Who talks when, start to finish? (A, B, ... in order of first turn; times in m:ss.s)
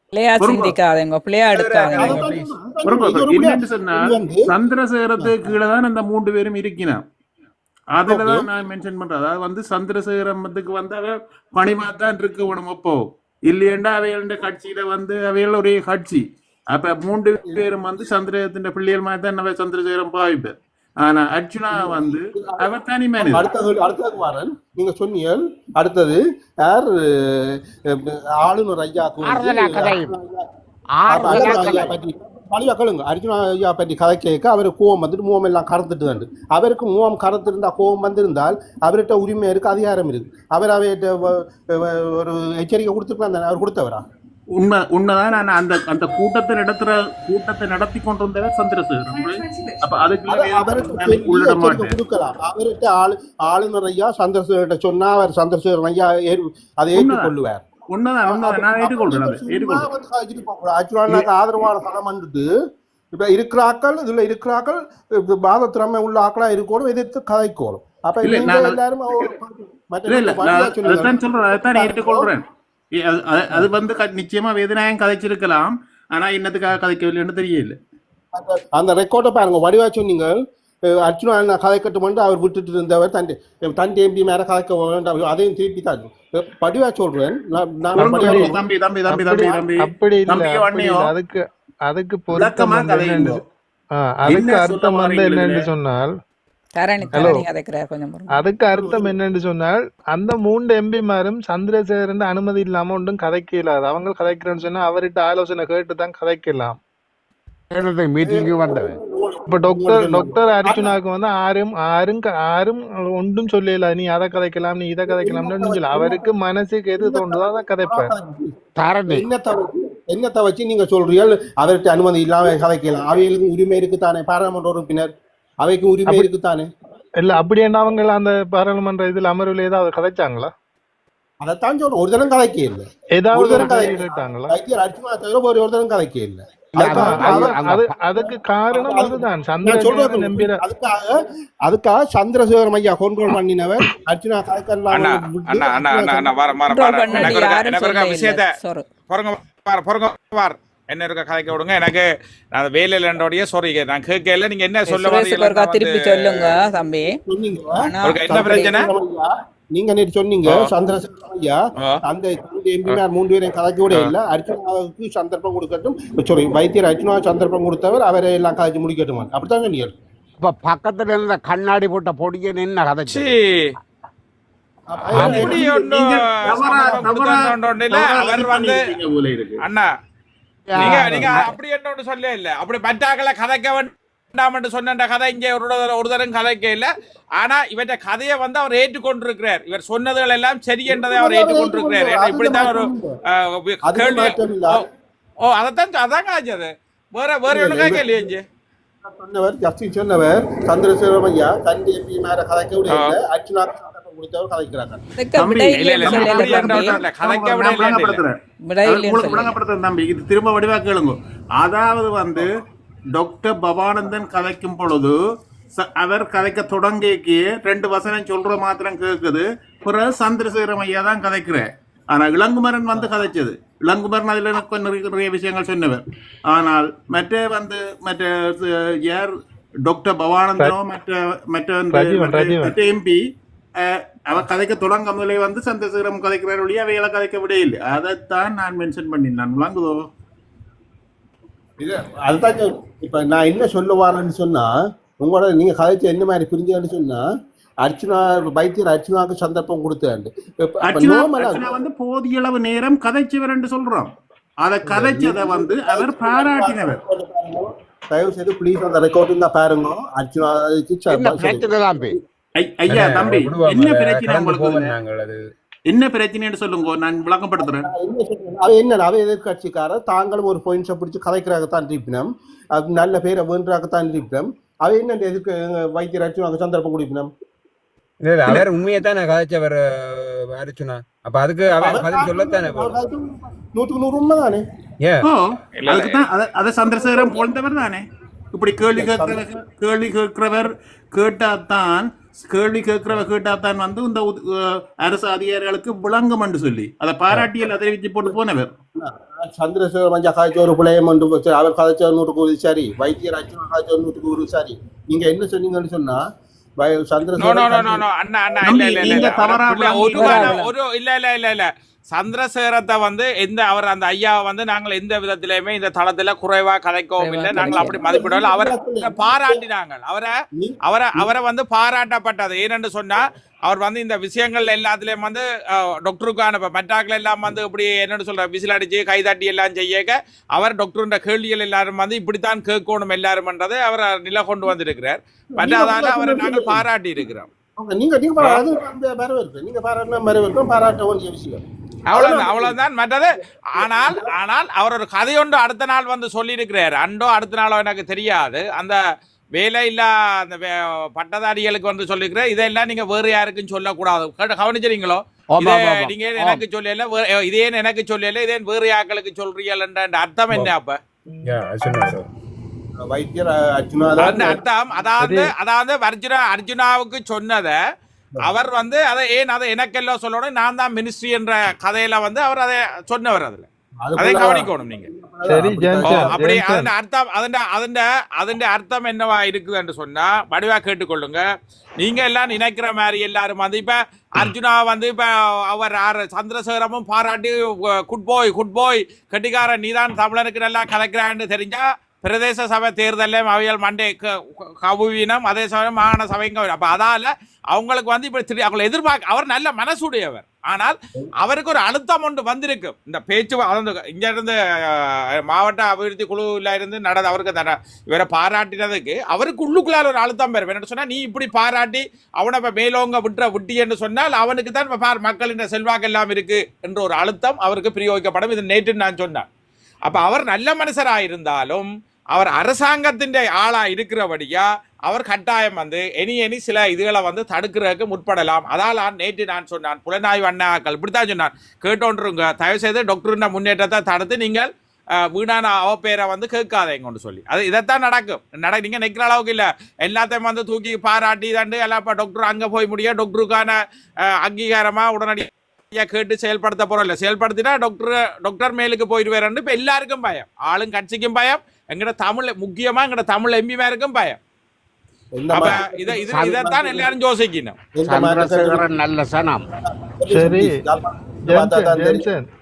0:00.1-0:02.2 A
0:00.4-0:00.8 B
0:01.5-0:02.5 C
0:02.0-0:04.5 D
0:02.8-0:07.0 B
0:05.2-0:05.6 D
0:08.0-0:23.5 B
0:08.0-0:08.5 D
0:21.7-0:22.7 D
0:23.2-0:30.4 D
0:29.2-0:30.1 E
0:31.0-0:32.0 E
0:31.1-0:44.0 D
0:44.6-0:52.0 B
0:49.2-0:49.8 A
0:50.3-0:57.6 D
0:56.9-0:57.3 B
0:57.9-0:59.9 B
0:58.2-1:02.5 D
1:03.2-1:12.3 D
1:08.2-1:09.3 B
1:10.1-1:17.8 B
1:18.3-1:20.3 D
1:20.9-1:28.6 D
1:28.0-1:28.5 F
1:28.0-1:31.1 B
1:29.1-1:33.4 F
1:32.3-1:33.4 B
1:33.9-1:36.1 F
1:34.2-1:35.7 B
1:36.8-1:38.5 A
1:37.1-1:37.5 F
1:38.3-1:46.8 F
1:47.7-1:49.0 E
1:48.2-1:50.9 D
1:49.5-1:58.1 F
1:55.1-1:56.3 D
1:57.0-1:58.5 D
1:58.8-1:59.3 E
1:59.1-2:06.7 D
2:07.2-2:10.5 F
2:11.4-2:17.6 D
2:13.2-2:14.6 F
2:16.8-2:20.6 F
2:16.9-2:17.9 E
2:18.1-2:26.3 D
2:24.9-2:28.5 G
2:26.7-2:28.9 A
2:27.1-2:27.4 D
2:29.1-2:36.5 G
2:34.8-2:37.2 A
2:37.3-2:50.0 D
2:37.8-2:38.9 A
2:38.0-2:38.9 G
2:50.4-2:53.3 E
2:53.1-2:53.7 G
2:54.9-2:55.7 D
2:55.1-2:55.5 C
2:55.1-2:59.6 B
2:55.2-2:58.8 G
2:59.6-2:59.9 G
3:00.7-3:01.5 E
3:00.8-3:01.2 C
3:00.8-3:14.8 G
3:10.9-3:13.1 D
3:13.8-3:14.8 D
3:15.5-3:18.4 G
3:17.5-3:18.3 D
3:19.0-3:25.0 D
3:25.2-3:27.0 A
3:25.3-3:32.5 B
3:25.7-3:28.2 G
3:28.7-3:29.6 A
3:33.2-3:35.2 B
3:35.8-3:49.3 B
3:49.9-3:53.2 B
3:51.9-3:52.8 F
3:53.8-4:00.1 B
4:01.8-4:07.2 D
4:07.8-4:11.7 D
4:10.8-4:17.0 B
4:14.8-4:22.1 D
4:21.1-4:22.2 E
4:22.6-4:25.0 B
4:22.9-4:25.4 C
4:25.9-4:27.9 B
4:27.6-4:37.3 D
4:38.2-4:42.9 C
4:41.8-4:44.6 D
4:45.0-4:45.3 C
4:45.2-4:58.8 B
4:45.8-4:46.2 G
4:46.9-4:47.4 D
4:48.9-4:49.4 D
4:59.0-5:06.2 D
5:06.8-5:08.0 D
5:07.4-5:20.3 G
5:08.6-5:10.6 B
5:09.0-5:09.3 D
5:10.1-5:10.7 A
5:17.2-5:18.1 A
5:17.6-5:19.6 D
5:20.6-5:21.3 D
5:20.8-5:37.5 G
5:35.6-5:36.8 D
5:37.8-5:41.6 D
5:42.1-5:43.3 G
5:42.1-5:42.8 D
5:43.8-5:44.3 D
5:43.8-5:49.0 G
5:49.6-6:01.0 G
5:55.6-5:56.5 E
6:01.4-6:02.3 C
6:01.9-6:02.2 F
6:03.0-6:04.6 D
6:04.2-6:07.8 G
6:05.2-6:05.5 F
6:08.4-6:13.6 G
6:14.0-6:16.4 D
6:14.2-6:15.1 G
6:15.5-6:16.9 F
6:16.0-6:21.4 G
6:22.0-6:59.4 G
7:00.0-7:14.7 G
7:15.3-7:23.8 G
7:24.4-7:34.4 G
7:35.4-7:37.1 D
7:35.5-7:37.8 G
7:38.0-7:38.9 D
7:38.0-7:39.6 E
7:39.6-7:42.2 D
7:40.3-7:40.8 F
7:41.5-7:42.5 F